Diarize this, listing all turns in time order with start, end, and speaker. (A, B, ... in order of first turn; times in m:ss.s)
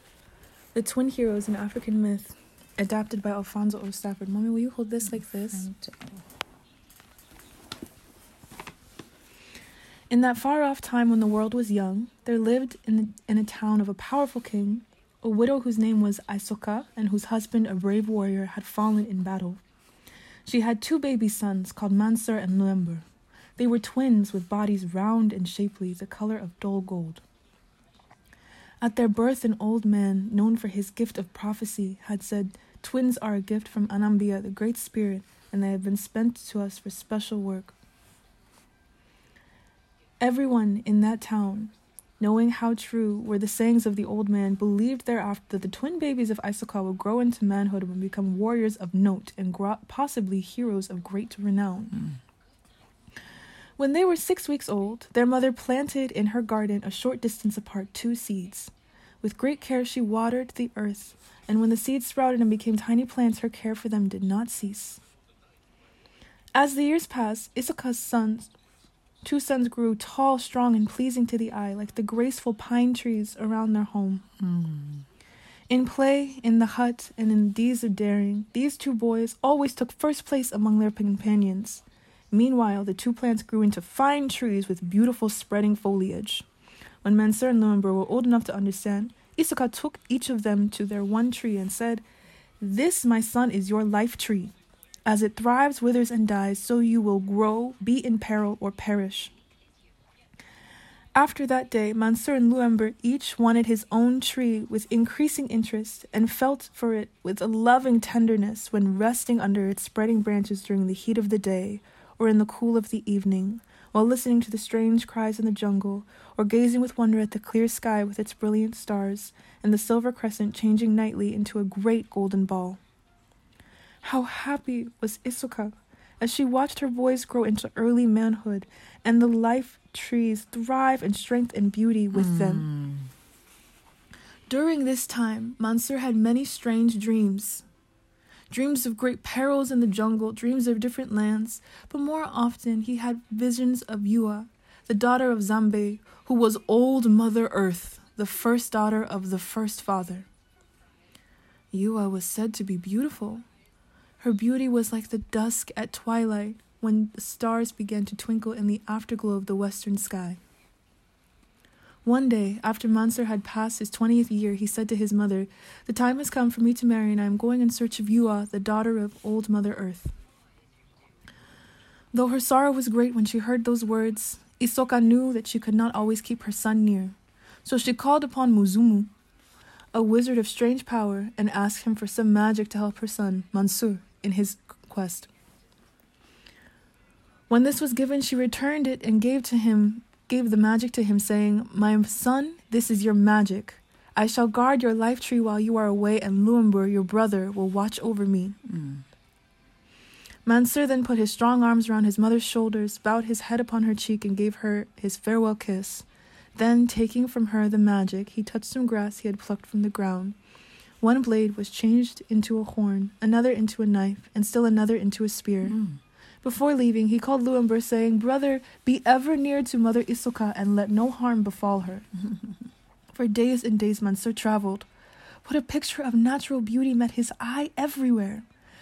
0:00.7-0:05.7 A
0:05.6-0:06.2 B
0:10.1-0:19.6 A
0:20.4-0:23.0 A
0:23.6-0:27.2 A
0:28.8-0:37.8 A
0:40.2-0:52.0 A
0:53.8-1:05.0 A
1:06.5-1:08.5 A
1:09.2-1:14.3 A
1:14.4-1:15.0 B
1:15.7-1:26.4 A
1:27.0-1:32.0 A
1:32.6-1:34.5 A
1:35.0-1:39.3 A
1:41.1-2:02.8 A
2:04.0-2:12.7 A
2:12.1-2:13.1 B
2:14.5-2:17.6 A
2:18.5-2:30.3 A
2:31.7-2:33.4 A
2:34.2-2:40.4 A
2:42.0-2:50.1 A
2:52.1-2:59.1 A
2:59.9-3:05.3 A
3:07.5-3:18.6 A
3:18.6-3:19.0 B
3:20.4-3:30.4 A
3:31.0-3:35.8 A
3:35.7-3:36.0 B
3:36.4-3:42.1 A
3:43.1-3:44.9 A
3:45.4-3:48.4 A